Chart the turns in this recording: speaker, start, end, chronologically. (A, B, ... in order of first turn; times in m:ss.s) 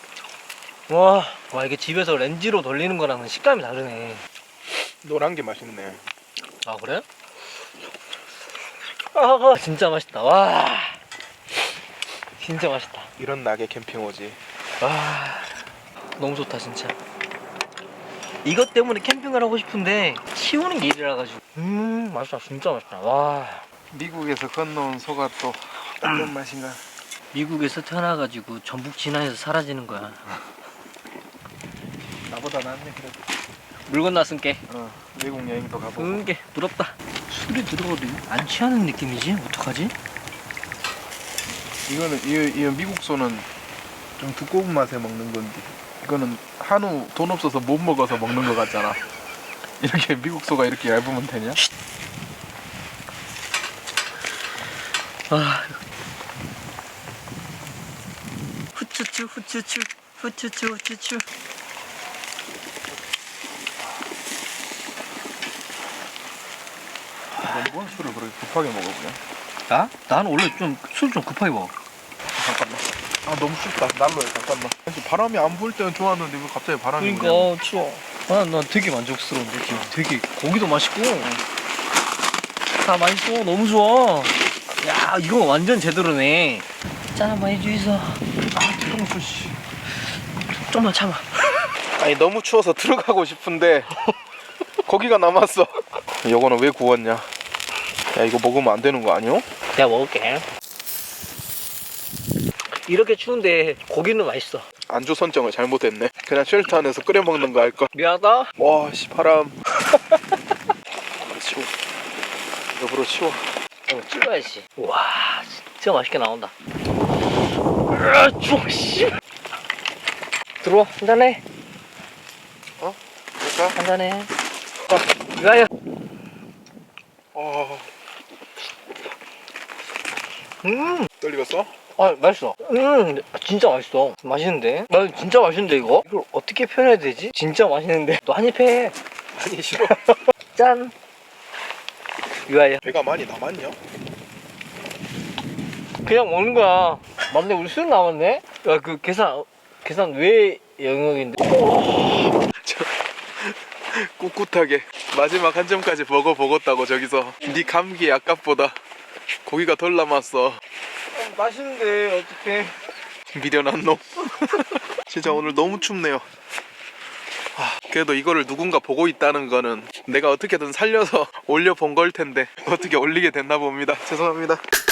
0:00.9-0:04.2 A
0:05.0-0:06.0 B
0:06.6-0:07.0 A
0:09.1-0:11.0 A
0:12.4-0:13.1 A
0:13.2-0:14.4 B
0:14.8-0:15.5 A
0:16.2-0:16.9 A
0:18.4-0:23.6 A
0:23.9-0:26.8 B
0:27.3-0:30.4 A
0:32.2-0:33.2 B
0:33.9-0:34.6 A
0:34.7-0:36.2 B
0:36.0-0:39.9 A
0:41.9-0:43.5 B
0:44.2-0:49.0 B
0:49.8-0:51.6 B
0:55.3-0:55.8 A
0:58.7-1:01.2 A
1:07.4-1:09.2 B
1:09.7-1:11.7 A
1:12.3-1:17.5 B
1:17.0-1:21.3 A
1:22.8-1:28.2 A
1:28.5-1:29.5 B
1:30.5-1:31.7 A
1:32.0-1:33.9 B
1:34.8-1:37.3 B
1:38.1-1:39.4 B
1:39.8-1:40.4 A
1:42.7-1:44.6 A
1:44.9-1:47.9 B
1:47.9-1:48.5 A
1:48.6-1:49.6 B
1:51.2-1:51.7 B
1:52.8-1:53.4 B
1:53.9-1:56.5 A
1:57.9-1:59.1 A
2:00.6-2:01.4 A
2:02.8-2:03.8 B
2:03.8-2:04.3 A
2:04.9-2:05.7 A
2:07.3-2:07.9 B
2:10.6-2:11.1 A
2:11.2-2:11.7 B
2:12.0-2:18.9 A
2:19.3-2:20.0 B
2:19.7-2:20.9 A
2:22.5-2:22.8 A
2:22.8-2:23.8 B
2:26.0-2:31.4 A
2:31.5-2:32.9 B
2:33.4-2:38.8 B
2:39.4-2:40.6 B
2:41.1-2:42.7 A
2:43.3-2:46.2 B
2:47.6-2:54.6 B